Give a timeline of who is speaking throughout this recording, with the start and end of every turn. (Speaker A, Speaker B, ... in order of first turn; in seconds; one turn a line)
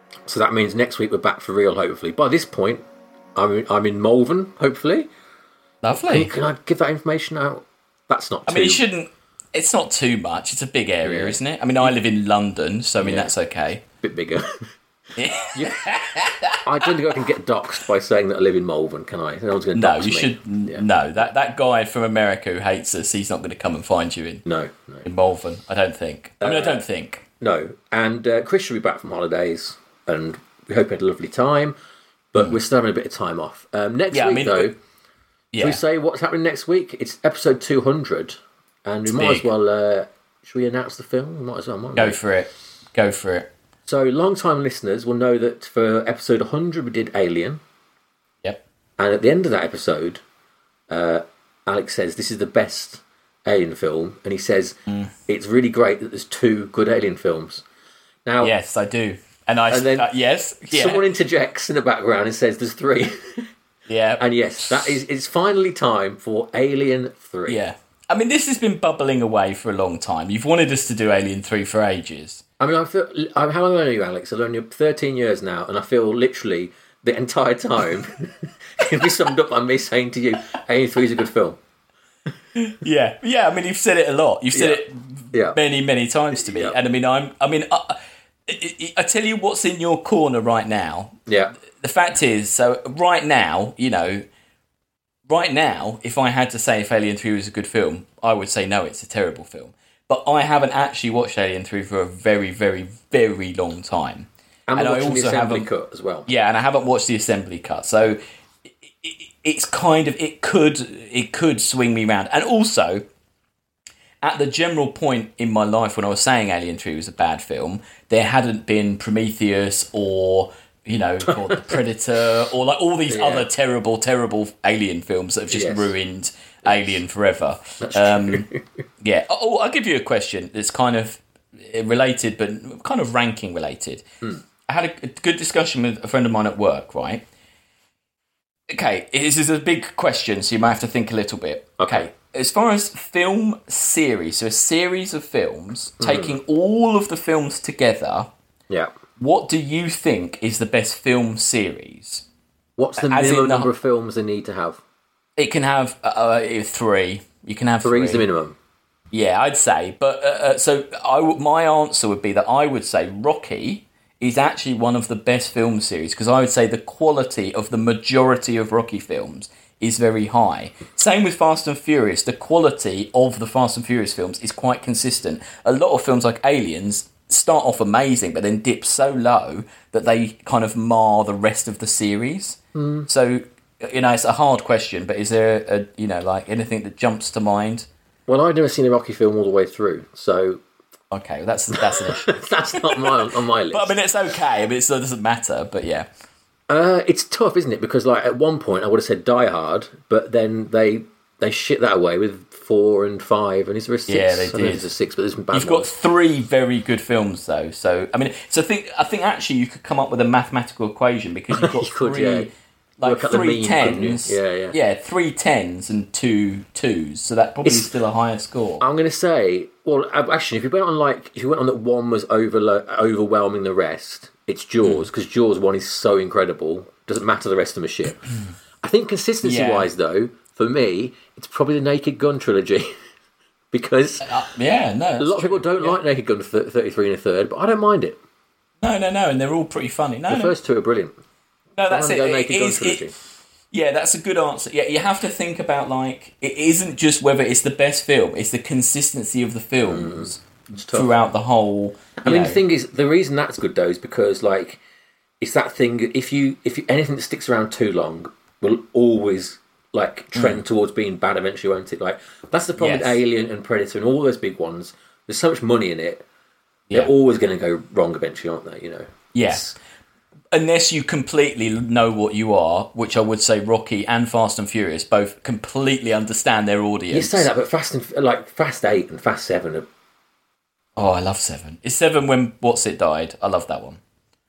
Speaker A: 0.2-2.8
Speaker A: 3.4-5.1
Speaker B: 5.8-6.3
Speaker A: 6.1-8.8
Speaker B: 8.4-13.8
Speaker A: 11.0-11.9
Speaker A: 13.0-13.3
Speaker A: 14.0-14.6
Speaker B: 15.2-16.9
Speaker A: 15.5-15.9
Speaker A: 16.6-20.8
Speaker B: 19.8-24.4
Speaker A: 24.4-25.1
Speaker B: 25.0-27.2
Speaker A: 26.4-26.8
Speaker A: 27.4-31.8
Speaker A: 32.3-34.8
Speaker B: 34.1-34.7
Speaker B: 35.5-35.8
Speaker A: 35.6-42.2
Speaker B: 39.1-39.5
Speaker B: 41.9-43.5
Speaker A: 43.9-47.6
Speaker A: 49.0-50.2
Speaker A: 50.9-57.6
Speaker B: 54.9-55.1
Speaker A: 58.2-58.5
Speaker B: 58.4-61.0
Speaker A: 59.7-60.1
Speaker A: 60.7-63.5
Speaker B: 63.9-64.9
Speaker A: 64.2-67.6
Speaker B: 67.5-72.4
Speaker A: 72.6-81.6
Speaker B: 82.6-91.2
Speaker A: 84.5-85.6
Speaker A: 86.3-86.8
Speaker A: 91.3-91.5
Speaker B: 91.8-94.2
Speaker B: 95.3-105.7
Speaker A: 104.7-106.3
Speaker B: 106.3-108.2
Speaker B: 108.8-113.0
Speaker B: 114.2-128.5
Speaker A: 121.3-121.6
Speaker A: 123.1-123.5
Speaker A: 125.5-125.9
Speaker A: 126.6-127.0
Speaker A: 127.8-128.6
Speaker B: 129.0-134.0
Speaker B: 134.7-137.2
Speaker B: 138.7-148.3
Speaker A: 141.8-142.1
Speaker A: 146.0-146.4
Speaker B: 149.2-152.2
Speaker A: 152.8-154.8
Speaker B: 153.0-153.7
Speaker B: 155.4-158.2
Speaker A: 157.8-158.6
Speaker B: 159.1-187.9
Speaker A: 182.8-183.1
Speaker A: 188.3-190.6
Speaker B: 191.1-196.1
Speaker A: 191.7-193.9
Speaker A: 196.7-205.9
Speaker B: 204.1-204.9
Speaker B: 205.5-218.8
Speaker A: 211.5-212.5
Speaker A: 213.0-214.8
Speaker A: 217.6-217.9
Speaker A: 218.8-228.2
Speaker B: 224.8-225.1
Speaker A: 228.8-232.9
Speaker B: 229.4-229.9
Speaker A: 233.7-234.4
Speaker B: 234.2-236.0
Speaker A: 235.2-238.2
Speaker B: 238.8-240.5
Speaker A: 240.3-241.1
Speaker B: 241.8-243.1
Speaker A: 241.9-243.1
Speaker B: 243.7-252.6
Speaker A: 249.8-251.1
Speaker A: 252.2-254.8
Speaker A: 255.4-266.2
Speaker B: 260.4-260.6
Speaker B: 262.8-263.2
Speaker A: 266.9-269.8
Speaker B: 269.3-269.6
Speaker B: 270.5-277.5
Speaker A: 277.1-279.9
Speaker B: 281.0-284.0